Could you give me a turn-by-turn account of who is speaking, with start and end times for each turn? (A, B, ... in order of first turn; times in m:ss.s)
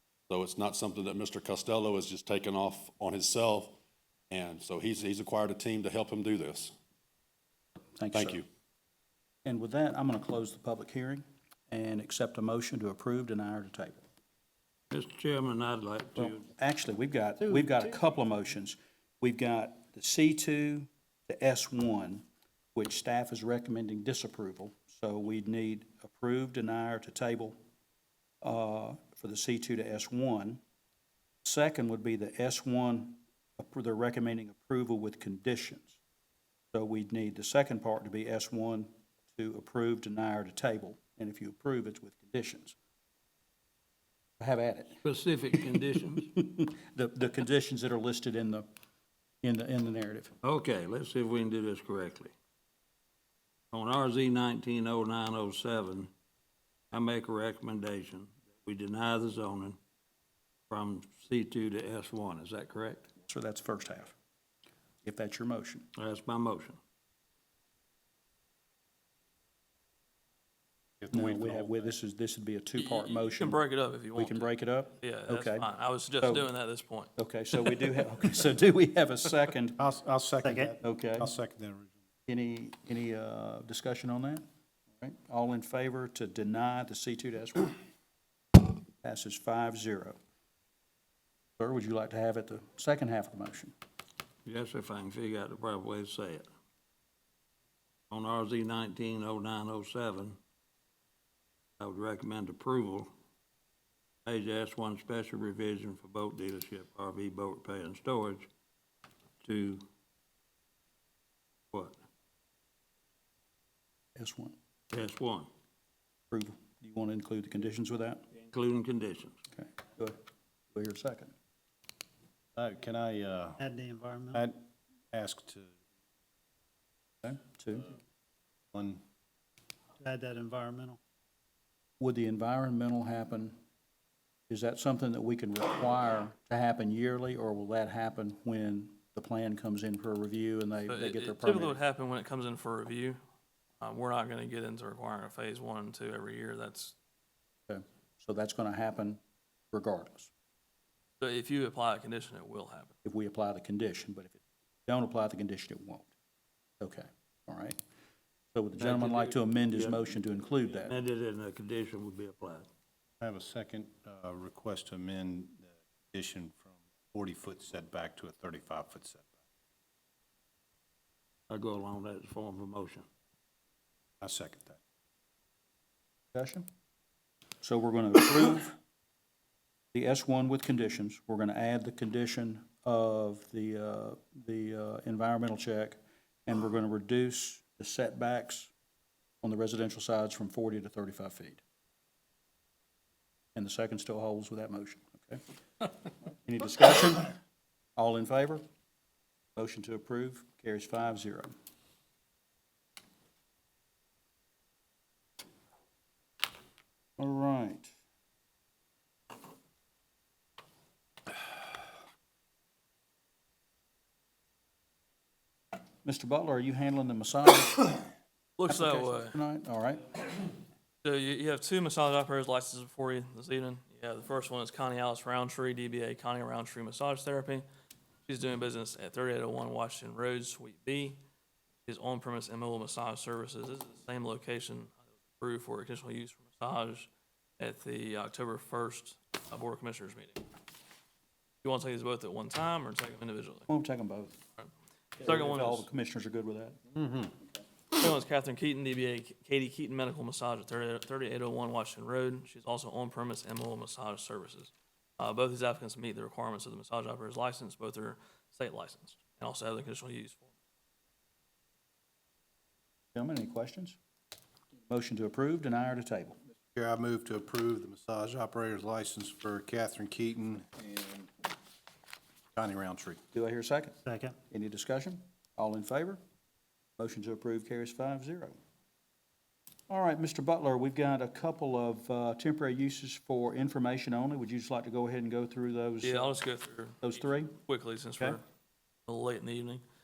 0:00.3-0:03.8 A
0:04.3-0:06.8 A
0:08.0-0:08.4 B
0:08.1-0:08.4 A
0:09.4-0:14.0 B
0:14.9-0:16.4 C
0:16.2-0:22.2 B
0:22.8-0:27.6 B
0:28.4-0:30.6 B
0:31.4-0:36.0 B
0:36.7-0:42.8 B
0:44.4-0:45.0 B
0:45.0-0:46.3 C
0:46.2-0:48.7 B
0:49.4-0:50.4 B
0:50.4-0:52.3 C
0:53.7-0:56.1 C
0:56.9-0:59.8 C
1:00.7-1:03.1 C
1:03.3-1:04.1 B
1:05.0-1:05.9 B
1:06.0-1:06.8 C
1:11.0-1:11.8 D
1:11.1-1:13.6 B
1:12.8-1:17.1 E
1:14.2-1:15.7 B
1:16.2-1:16.5 B
1:17.2-1:19.8 B
1:19.8-1:22.0 D
1:20.4-1:20.8 F
1:20.8-1:21.3 B
1:22.3-1:24.4 B
1:25.0-1:27.8 B
1:29.0-1:30.2 B
1:31.6-1:33.7 B
1:34.4-1:36.5 C
1:38.1-1:40.4 C
1:41.8-1:43.1 C
1:44.2-1:48.5 C
1:49.4-1:49.9 C
1:54.2-1:54.6 B
1:54.9-1:55.5 C
1:56.3-1:58.2 B
1:58.5-1:59.4 C
1:59.6-2:00.2 B
2:00.7-2:01.3 B
2:02.6-2:03.6 D
2:03.6-2:04.4 F
2:04.3-2:05.8 D
2:07.2-2:07.9 B
2:08.7-2:09.0 D
2:10.0-2:11.0 F
2:12.0-2:13.6 B
2:14.5-2:21.8 B
2:20.9-2:23.2 E
2:23.8-2:27.0 E
2:27.7-2:29.2 B
2:29.7-2:30.3 B
2:31.2-2:32.9 E
2:33.0-2:36.1 B
2:36.8-2:37.8 B
2:38.5-2:40.9 B
2:38.8-2:40.0 C
2:40.7-2:42.7 C
2:43.2-2:49.3 D
2:51.5-2:53.0 C
2:54.2-2:54.8 D
2:56.4-2:56.7 B
2:57.6-2:58.8 B
2:59.9-3:08.7 B
3:09.4-3:11.6 B
3:13.6-3:15.4 B
3:16.3-3:17.3 B
3:18.0-3:18.6 B
3:19.6-3:21.5 B
3:27.2-3:27.9 B
3:36.0-3:38.1 B
3:38.6-3:39.4 E
3:38.7-3:40.2 B
3:41.0-3:47.6 E
3:48.3-3:51.2 E
3:51.9-4:00.4 E
4:01.6-4:03.7 E
4:03.7-4:04.4 B
4:04.6-4:05.9 E
4:05.2-4:06.8 B
4:07.0-4:07.3 D
4:08.0-4:20.5 E
4:23.2-4:24.0 B
4:24.9-4:26.4 B
4:26.8-4:31.3 D
4:32.5-4:33.2 D
4:33.3-4:34.0 B
4:34.1-4:34.4 F
4:34.5-4:36.2 B
4:37.0-4:38.6 B
4:39.9-4:46.4 B
4:46.0-4:48.4 E
4:47.0-4:47.6 B
4:49.1-4:49.8 E